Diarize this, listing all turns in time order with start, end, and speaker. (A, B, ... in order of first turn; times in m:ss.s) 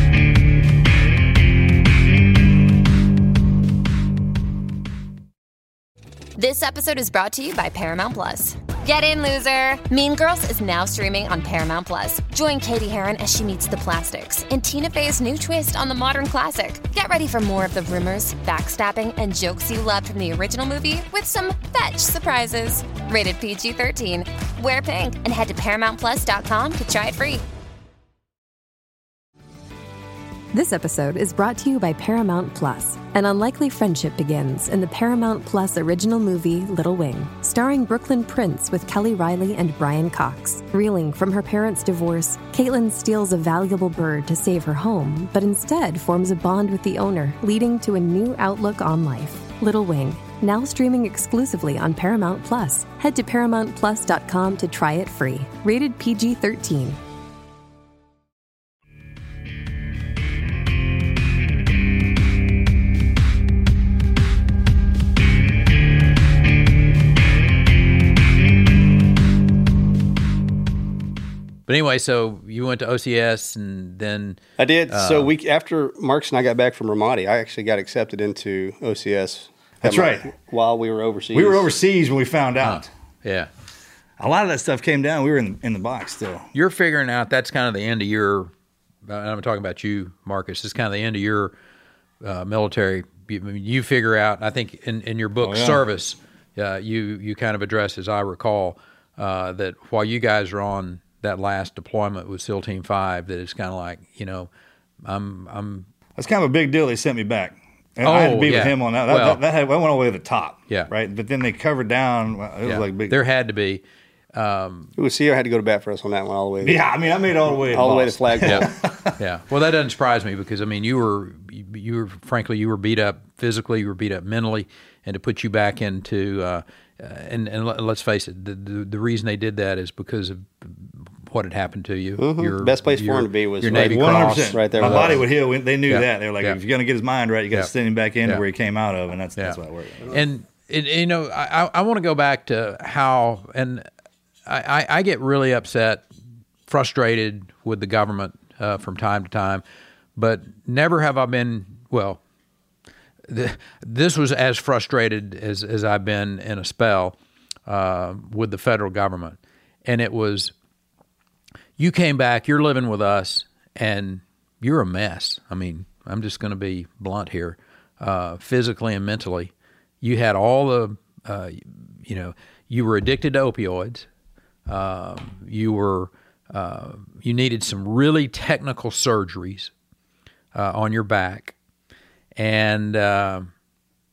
0:06.4-0:27.4 A
0:30.5-0:57.0 B
1:11.7-1:15.3 C
1:14.6-1:21.7 D
1:19.8-1:20.3 E
1:21.3-1:22.9 E
1:22.6-1:23.5 C
1:24.2-1:26.5 E
1:26.5-1:28.5 C
1:29.1-1:31.5 C
1:32.2-1:44.5 C
1:35.4-1:35.8 E
1:45.0-1:45.9 C
1:46.2-1:53.1 E
1:48.0-1:49.4 C
1:52.6-1:53.8 C
1:54.3-1:54.9 C
1:55.0-1:56.8 D
1:56.6-1:59.1 E
1:57.5-1:58.7 D
1:59.2-2:15.3 C
2:12.2-2:15.2 D
2:13.7-2:20.2 E
2:15.9-2:16.6 C
2:19.4-2:23.9 C
2:24.5-2:26.0 C
2:26.7-2:29.6 C
2:30.2-2:32.2 C
2:33.3-2:37.2 C
2:37.7-2:40.5 C
2:41.8-2:54.1 C
2:54.7-2:59.7 C
3:00.6-3:01.6 C
3:02.4-3:03.5 C